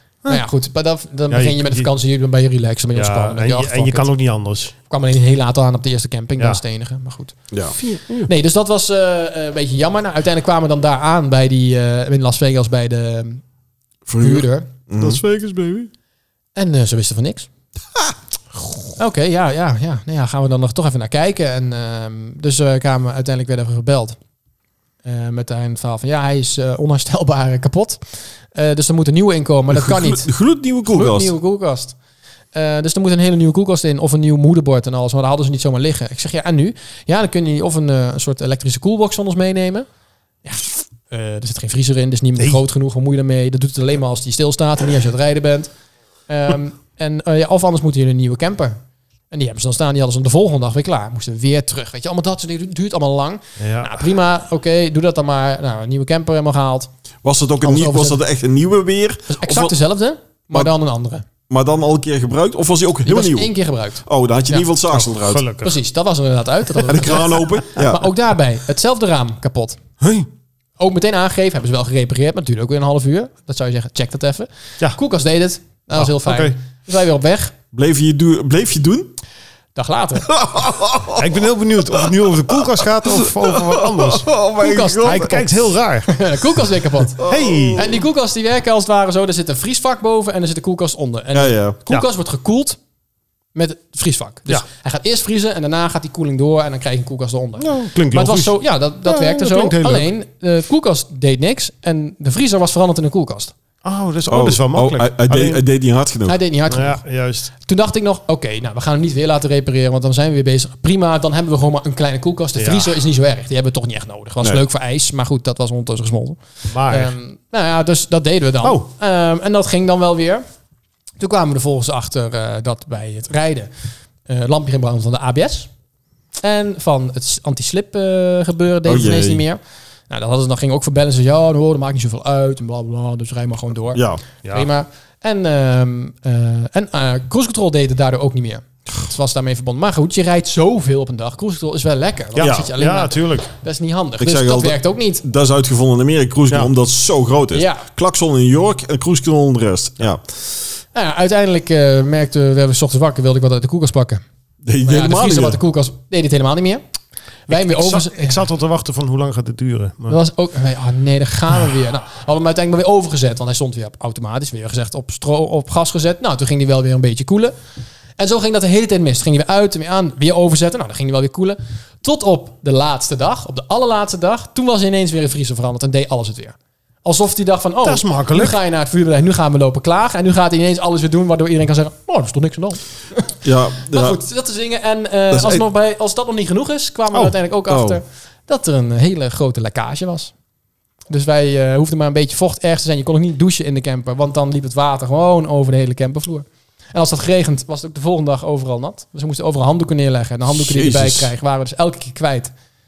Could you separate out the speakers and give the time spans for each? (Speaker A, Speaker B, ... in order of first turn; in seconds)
Speaker A: 0.2-0.5, 1.3-1.9, 2.9-4.7, 7.8-8.3, 15.0-15.9, 53.6-54.0, 64.9-65.8, 70.0-70.3, 75.9-76.5, 81.1-84.3, 85.0-86.2, 87.2-88.0, 97.6-100.1, 103.8-105.6, 106.7-107.5, 112.6-112.9, 116.7-117.2, 118.6-118.9, 142.3-143.5, 157.5-160.2, 177.8-178.6
Speaker B: 0.3-4.1, 4.9-7.3, 8.2-13.4, 14.2-14.7, 16.5-17.5, 19.0-24.2, 25.0-30.3, 30.9-31.9, 32.5-39.9, 40.4-45.7, 46.3-48.8, 49.3-56.9, 57.6-58.2, 59.3-61.2, 63.0-64.6, 65.6-69.8, 70.8-77.5, 79.7-80.3, 84.6-85.5, 86.0-87.2, 87.7-92.8, 93.5-103.5, 106.3-120.4, 121.2-123.7, 124.2-125.7, 126.4-145.2, 147.5-147.8, 150.9-154.2, 154.8-156.8, 157.5-158.4, 160.1-167.5, 168.2-183.4, 183.9-190.3, 191.1-202.5
Speaker C: 14.1-15.2, 29.7-31.3, 57.2-59.7, 61.5-65.4, 66.8-68.1, 77.7-79.1, 80.3-81.3, 83.1-85.4, 87.2-87.8, 91.3-91.8, 104.3-106.4, 128.8-129.4, 133.9-134.2, 142.4-142.7, 144.2-150.2, 154.6-155.6, 183.4-184.2, 185.3-185.6, 187.7-188.0, 200.6-201.3